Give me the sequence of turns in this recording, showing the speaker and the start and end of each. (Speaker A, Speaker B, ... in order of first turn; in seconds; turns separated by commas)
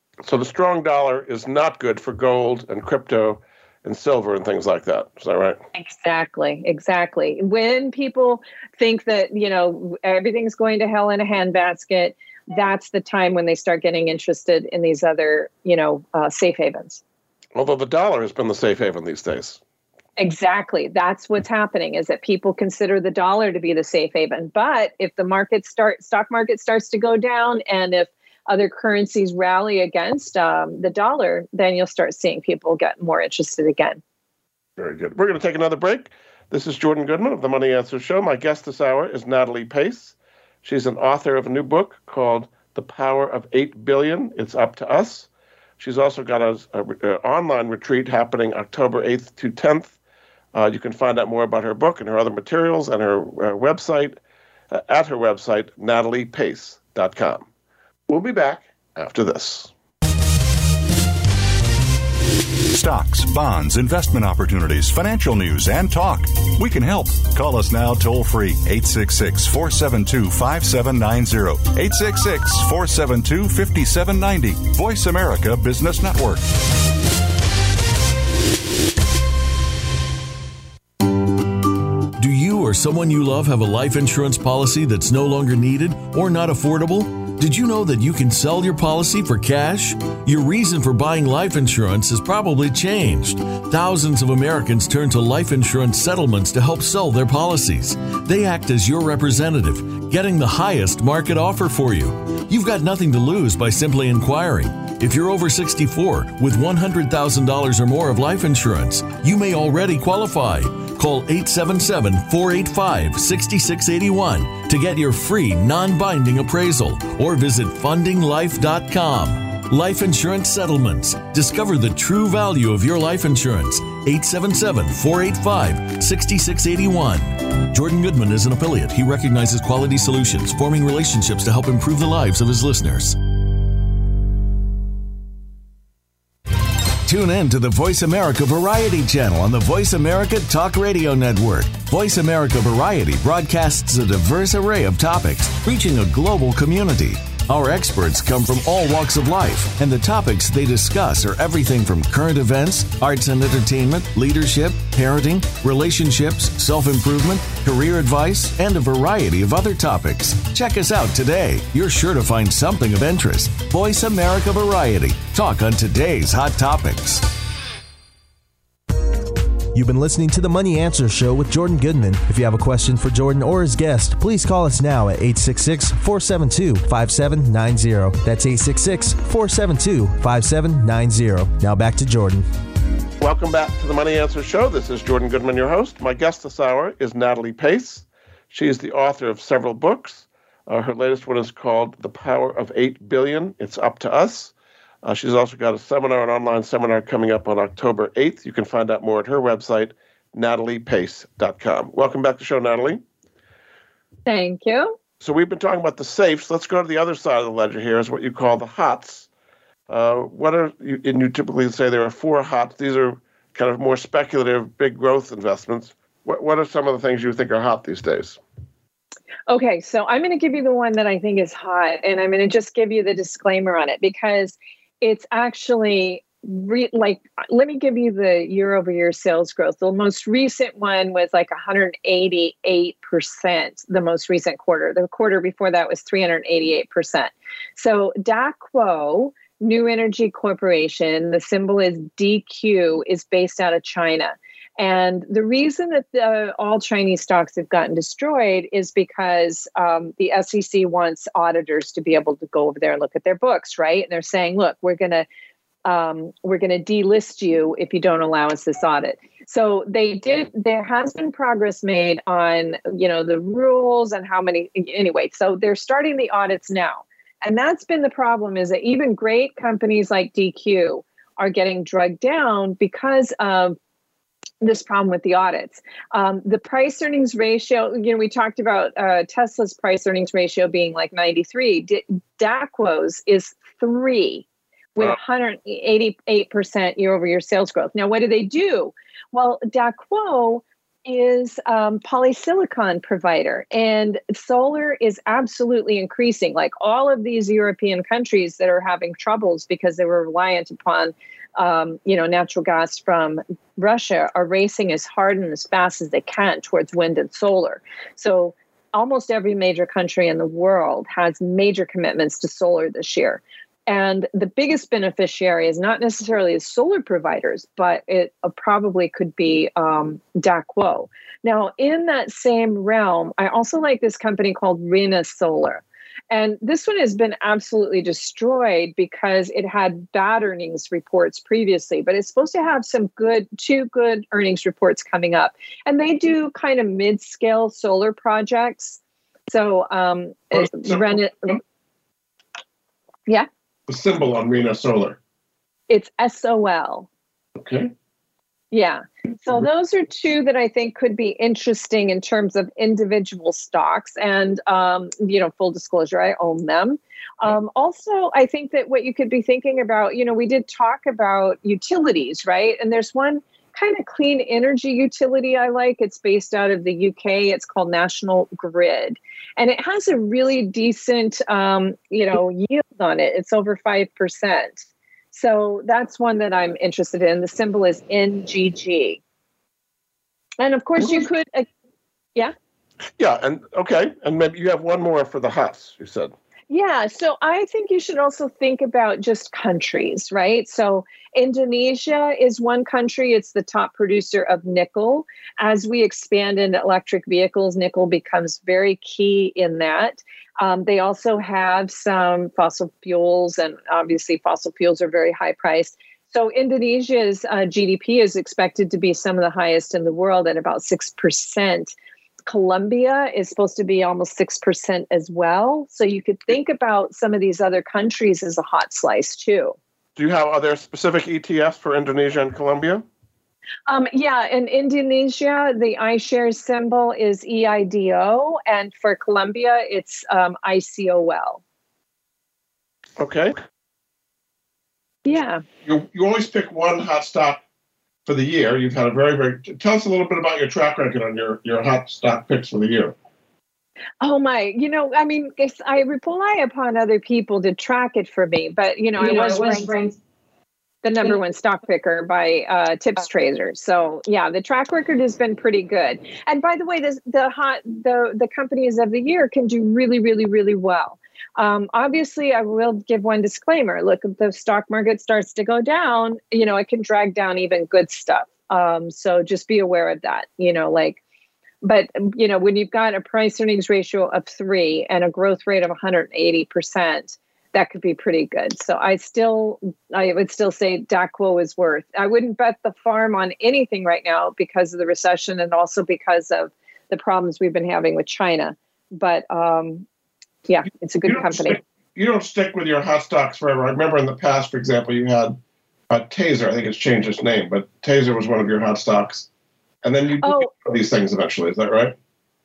Speaker A: 0.2-5.6, Speaker B: 5.7-17.0, Speaker A: 17.5-19.6, Speaker B: 20.2-34.0, Speaker A: 34.8-50.0, Speaker A: 50.5-54.2, Speaker A: 54.7-57.5, Speaker A: 58.1-59.7, Speaker C: 62.7-76.5, Speaker D: 82.2-133.2, Speaker D: 137.0-167.3, Speaker E: 169.7-182.4, Speaker A: 183.2-194.5, Speaker A: 195.0-203.0, Speaker B: 204.2-204.9, Speaker A: 205.2-209.3, Speaker A: 209.9-218.4, Speaker B: 219.5-255.2, Speaker B: 255.8-273.8, Speaker B: 274.6-341.6, Speaker A: 340.5-341.6, Speaker A: 343.9-345.2, Speaker B: 345.9-347.1, Speaker A: 347.6-347.9, Speaker B: 348.7-379.2, Speaker B: 380.6-381.7, Speaker A: 383.2-386.3, Speaker B: 386.7-411.9, Speaker B: 412.5-419.8, Speaker A: 420.1-423.0, Speaker B: 423.9-431.6, Speaker A: 433.2-433.6, Speaker B: 435.2-435.6, Speaker A: 435.8-437.6, Speaker A: 438.2-443.1, Speaker B: 444.2-450.0, Speaker B: 451.0-471.2, Speaker B: 471.8-490.1, Speaker B: 490.7-491.8, Speaker A: 491.3-495.6, Speaker A: 496.1-499.5, Speaker A: 500.0-502.1, Speaker B: 500.4-500.7